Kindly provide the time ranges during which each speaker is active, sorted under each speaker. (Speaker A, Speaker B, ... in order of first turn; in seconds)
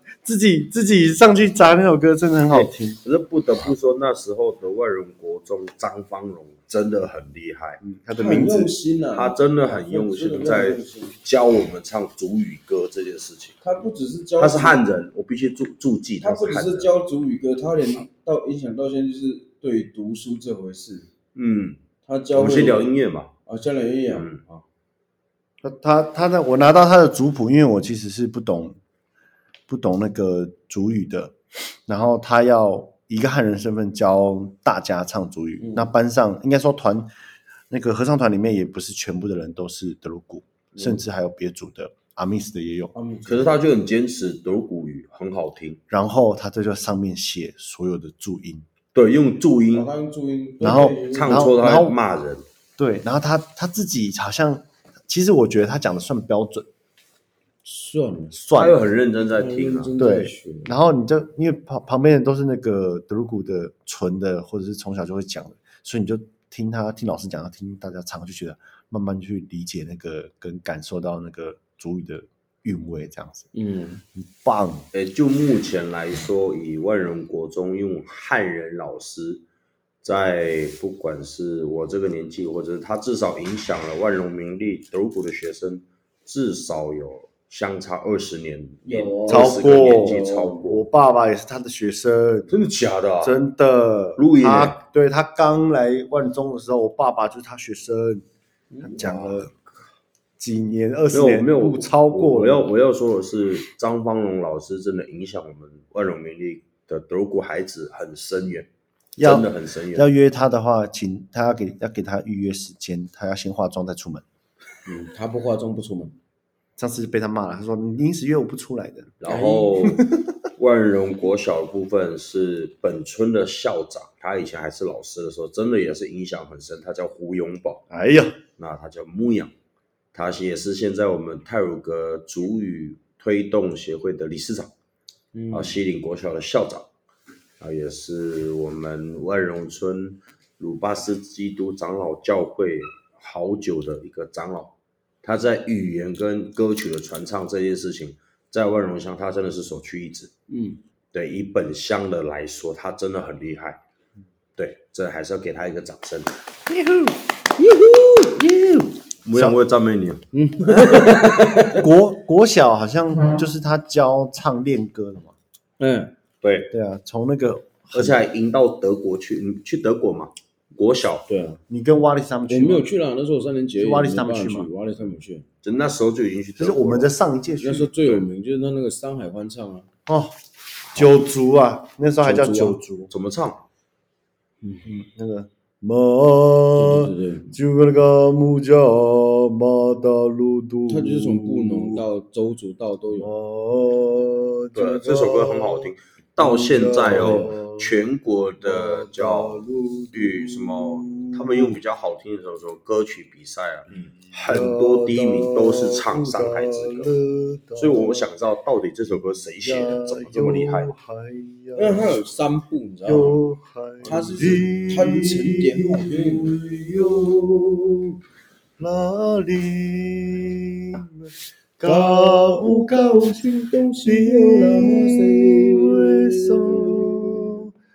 Speaker A: 0.2-3.0, 7.8-8.7, 25.6-28.8, 29.7-37.1, 37.7-42.9, 45.9-48.6, 50.6-52.0, 52.8-56.6, 58.3-58.8, 60.0-73.5, 74.2-74.9, 89.3-92.6, 93.2-98.2, 98.8-99.5, 100.4-102.7, 109.2-114.2, 116.8-119.2, 119.8-120.3, 127.9-128.4, 156.7-157.1, 158.4-159.6, 161.7-165.3, 166.7-168.2, 171.7-172.9, 173.8-174.7, 176.6-177.9, 180.1-180.3, 180.9-183.1, 184.8-192.0, 193.1-198.0, 198.6-201.8, 204.0-208.3, 209.6-212.2, 213.0-217.9, 218.8-223.4, 224.0-227.7
Speaker B: 2.5-7.8, 9.1-13.6, 14.4-16.9, 21.3-21.8, 22.3-23.3, 24.1-24.6, 43.2-45.8, 48.9-49.9, 51.1-52.4, 58.5-59.9, 74.9-79.4, 80.0-90.8, 92.5-93.3, 94.2-94.8, 101.1-108.7, 109.2-110.1, 119.2-120.0, 120.5-127.8, 128.6-129.5, 130.1-134.7, 135.5-136.9, 137.6-150.3, 151.1-153.8, 154.6-156.4, 159.2-161.5, 166.4-166.7, 167.9-171.3, 175.6-177.1, 180.9-181.2, 183.1-183.6, 194.7-207.1, 207.8-210.9, 214.0-218.0
Speaker C: 8.2-11.2, 13.6-14.8, 16.2-21.1, 22.0-24.3, 35.6-35.9, 42.9-43.6, 49.7-51.6, 57.6-58.4, 59.2-60.7, 73.5-74.0, 88.8-90.8, 98.7-99.5, 114.8-116.1, 119.2-119.7, 135.3-135.8, 150.5-150.8, 157.6-158.4, 160.3-161.9, 165.8-166.1, 171.3-171.6, 172.5-175.5, 177.5-179.9, 182.2-182.8, 186.7-187.5, 190.9-193.3, 197.0-197.6, 211.7-213.4, 214.0-216.5, 221.8-227.5